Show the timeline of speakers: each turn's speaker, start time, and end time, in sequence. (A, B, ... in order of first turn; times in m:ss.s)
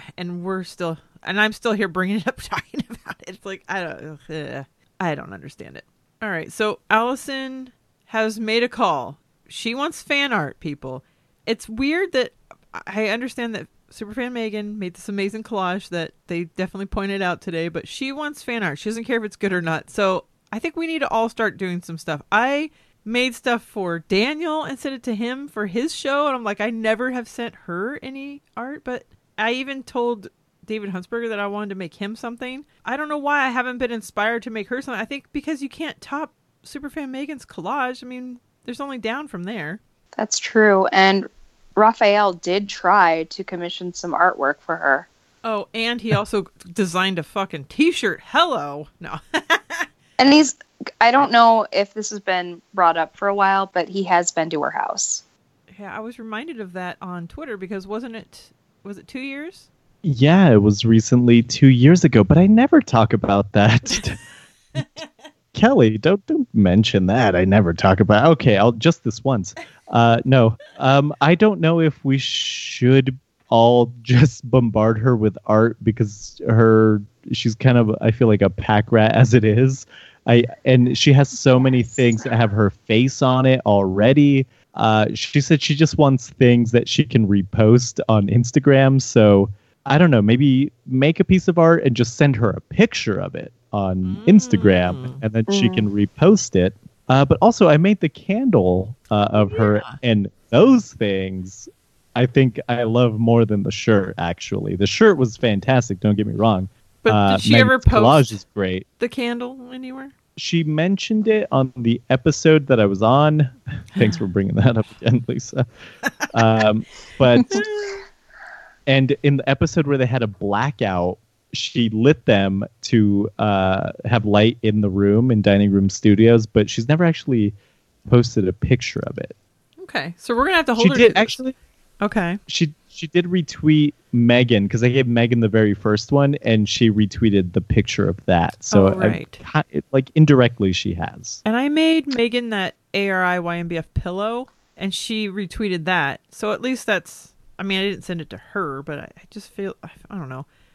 0:00.2-0:39.8 A
0:40.2-0:45.1 B
0:45.4-0:49.9 A
0:50.2-0:55.2 B
0:55.7-0:59.7 A
1:00.0-1:04.2 C
1:04.8-1:05.0 A
1:05.5-1:48.8 C
1:34.0-1:35.2 A
1:35.5-1:35.9 B
1:39.4-1:40.0 A
1:47.0-1:48.4 A
1:49.0-1:50.1 A
1:50.4-1:55.6 C
1:56.3-1:57.5 C
1:57.4-1:57.6 B
1:57.5-1:58.0 A
1:58.9-2:07.5 C
2:08.1-2:09.3 C
2:09.8-2:11.4 A
2:10.8-2:11.5 C
2:12.0-2:12.4 A
2:12.5-2:21.4 C
2:18.7-2:19.4 A
2:21.4-2:30.4 A